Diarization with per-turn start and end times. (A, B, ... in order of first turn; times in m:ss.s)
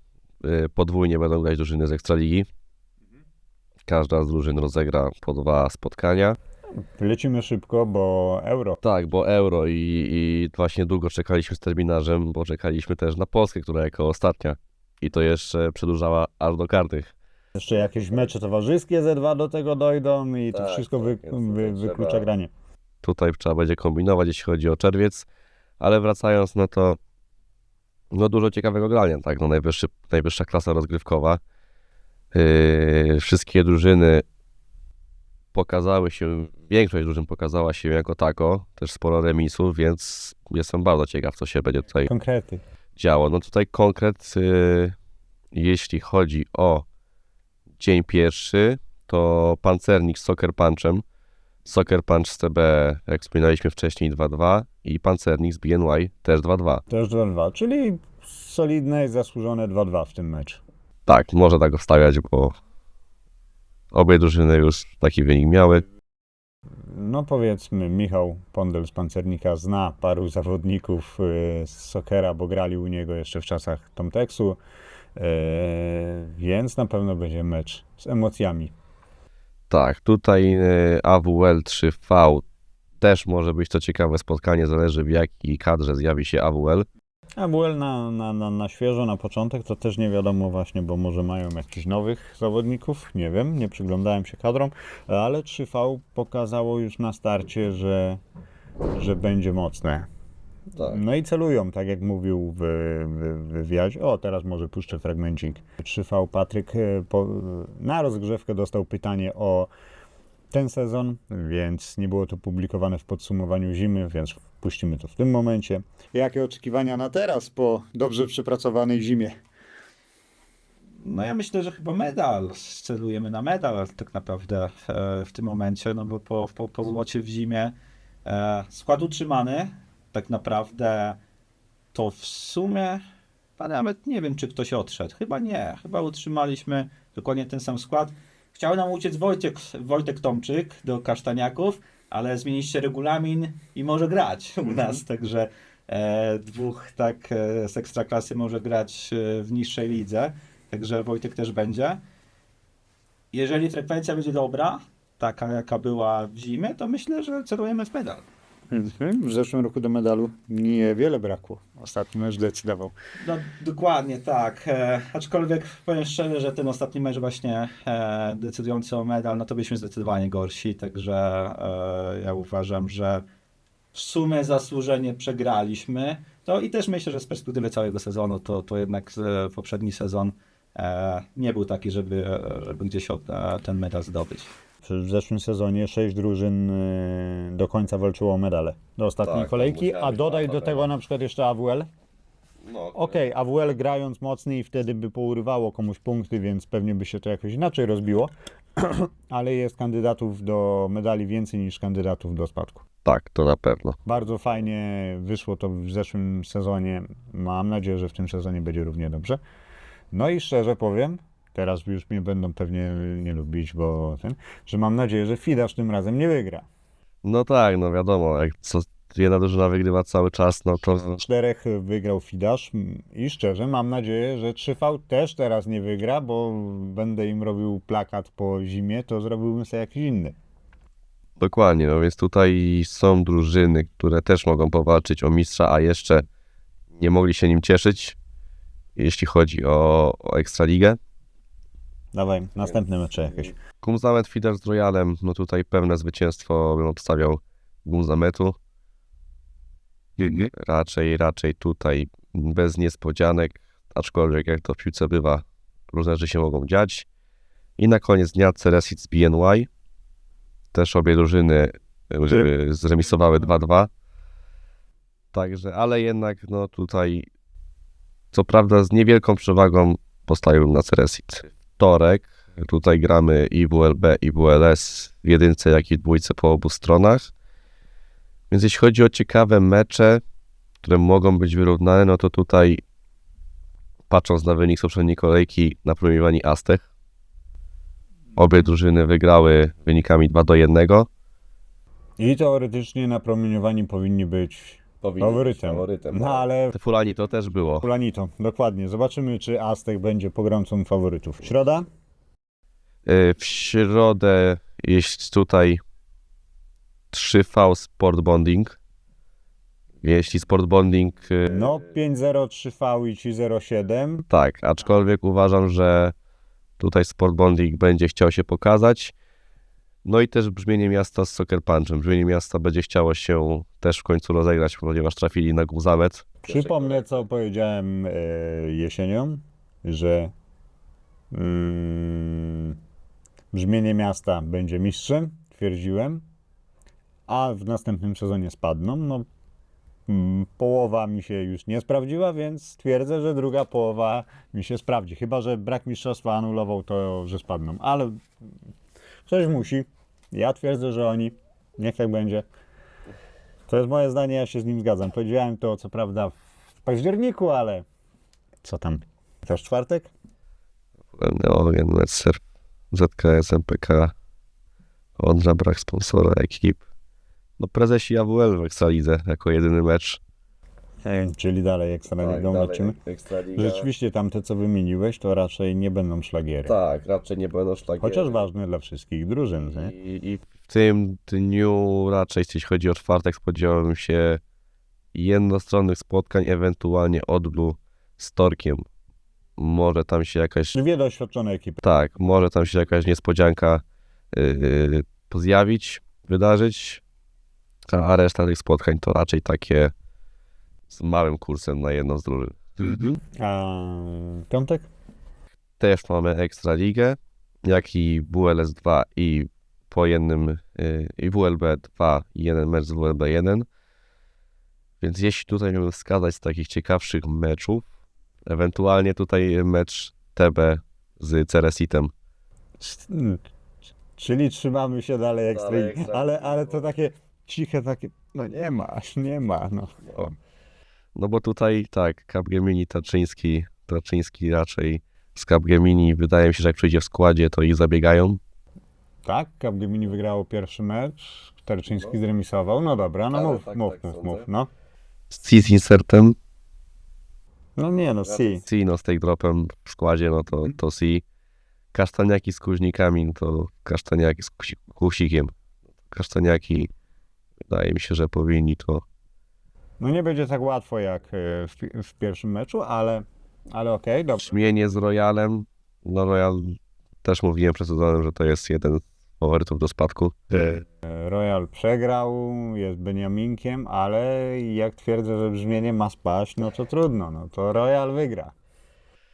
0:00.4-0:02.5 A
0:03.9-0:06.4 A
0:07.0-0:08.8 B
0:08.8-0:17.1 A
0:17.6-0:22.5 B
0:17.7-0:18.3 A
0:20.5-0:22.3 A
0:23.0-0:25.3 A
0:25.8-0:27.0 A
0:28.1-0:31.4 A
0:32.3-0:34.2 A
0:35.5-0:42.1 A
0:42.0-0:42.6 B
0:43.0-0:44.9 A
0:45.5-0:46.8 A
0:47.8-0:51.0 A
0:51.6-0:56.8 A
0:56.9-1:00.6 B
1:01.0-1:02.5 A
1:03.9-1:05.8 A
1:06.8-1:14.6 B
1:15.1-1:18.7 B
1:19.7-1:22.4 A
1:23.0-1:26.8 A
1:27.4-1:38.2 B
1:38.9-1:40.0 B
1:40.7-1:41.0 A
1:40.8-1:49.7 B
1:50.5-1:59.4 B
2:01.0-2:11.2 C
2:11.9-2:13.0 C
2:13.6-2:32.0 C
2:33.3-2:38.2 C
2:38.7-2:42.9 B
2:43.2-2:53.2 C
2:53.9-3:04.5 C
3:04.8-3:11.9 B
3:09.2-3:10.9 A
3:12.6-3:13.2 A
3:12.9-3:22.8 B
3:23.0-3:24.0 A
3:24.0-3:29.4 B
3:30.1-3:36.6 B
3:37.2-3:41.2 A
3:41.2-3:50.3 B
3:51.4-3:56.2 A
3:56.9-3:58.2 A
3:59.0-4:01.0 A
4:02.1-4:03.5 B
4:03.8-4:08.6 A
4:10.2-4:17.1 A
4:17.8-4:19.7 A
4:20.7-4:23.9 A
4:25.3-4:27.3 A
4:28.3-4:37.3 A
4:38.5-4:40.2 A
4:40.8-4:42.8 A
4:44.1-4:46.9 A
4:48.4-4:51.1 A
4:52.2-4:56.7 B
4:55.0-4:57.8 A
4:57.8-5:01.9 B
5:03.0-5:05.8 A
5:07.1-5:08.8 A
5:10.0-5:11.6 A
5:11.4-5:14.3 B
5:14.3-5:16.1 A
5:16.8-5:19.1 A
5:20.0-5:27.2 A
5:26.4-5:30.3 B
5:31.3-5:32.8 B
5:33.5-5:36.2 B
5:37.3-5:39.2 B
5:40.1-5:48.2 B
5:49.2-5:52.4 B
5:53.7-5:57.8 B
5:58.6-6:00.1 B
6:01.2-6:04.1 A
6:05.2-6:06.8 A
6:07.6-6:10.2 A
6:11.0-6:13.0 B
6:12.2-6:13.9 A
6:13.5-6:16.7 B
6:16.6-6:18.4 A
6:18.0-6:19.9 B
6:19.6-6:24.4 A
6:25.1-6:28.8 A
6:29.6-6:30.8 A
6:30.7-6:31.8 B
6:31.8-6:37.0 A
6:37.9-6:39.9 A
6:40.9-6:43.2 A
6:43.4-6:44.9 B
6:45.8-6:53.7 A
6:55.0-6:57.8 A
6:58.4-7:02.1 A
7:02.8-7:03.4 B
7:04.2-7:10.3 B
7:05.5-7:06.9 A
7:10.0-7:10.3 A
7:11.1-7:18.4 A
7:19.2-7:24.7 B
7:23.3-7:24.5 A
7:25.3-7:26.4 A
7:27.8-7:28.6 B
7:28.2-7:31.2 A
7:31.9-7:35.5 A
7:36.1-7:36.9 A
7:37.7-7:39.0 A
7:40.0-7:44.5 B
7:44.4-7:50.8 A
7:51.0-7:58.5 B